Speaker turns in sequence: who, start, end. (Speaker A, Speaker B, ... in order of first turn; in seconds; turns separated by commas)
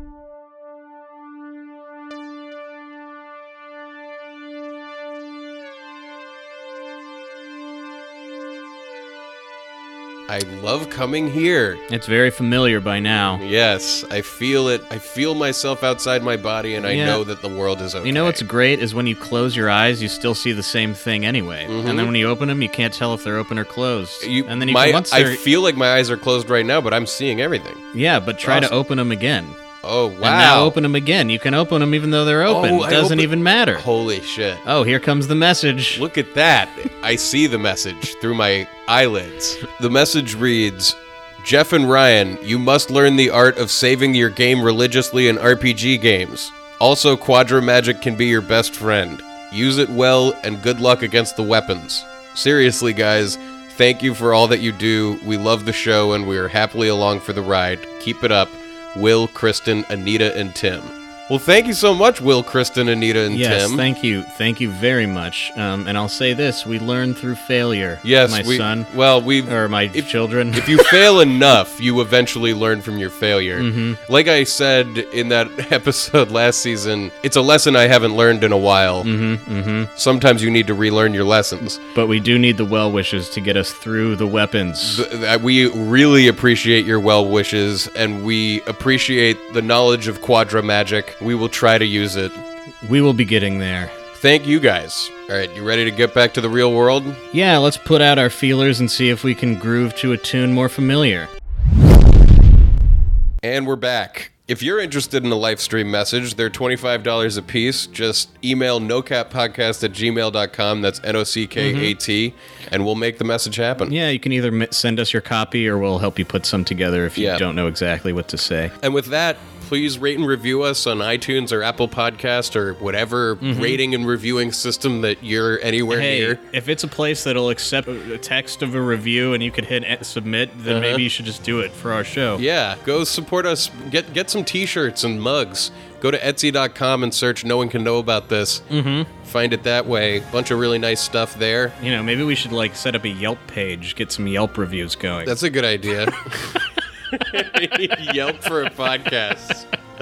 Speaker A: 10.3-11.8, Speaker B: 11.9-13.4, Speaker A: 13.4-18.4, Speaker B: 16.8-17.2, Speaker B: 18.0-25.4, Speaker A: 21.7-22.1, Speaker A: 24.2-27.8, Speaker B: 27.9-29.6, Speaker A: 28.4-28.7, Speaker A: 29.8-30.7, Speaker B: 30.2-33.8, Speaker A: 32.5-34.6, Speaker B: 34.6-36.0, Speaker A: 35.9-63.8, Speaker B: 63.3-68.9, Speaker A: 68.0-79.1, Speaker B: 69.5-71.0, Speaker B: 73.6-74.0, Speaker B: 79.0-79.9, Speaker A: 80.0-81.8, Speaker B: 81.8-85.0, Speaker A: 84.8-92.4, Speaker B: 92.8-93.9, Speaker A: 94.1-97.2, Speaker B: 97.3-101.3, Speaker A: 103.4-114.0, Speaker B: 111.5-111.9, Speaker B: 113.9-118.7, Speaker A: 117.1-117.4, Speaker A: 118.8-126.4, Speaker B: 123.4-123.8, Speaker B: 125.9-132.4, Speaker A: 130.7-131.0, Speaker A: 132.3-138.7, Speaker B: 138.7-139.1, Speaker A: 139.2-141.7, Speaker B: 141.8-145.3, Speaker A: 145.2-149.7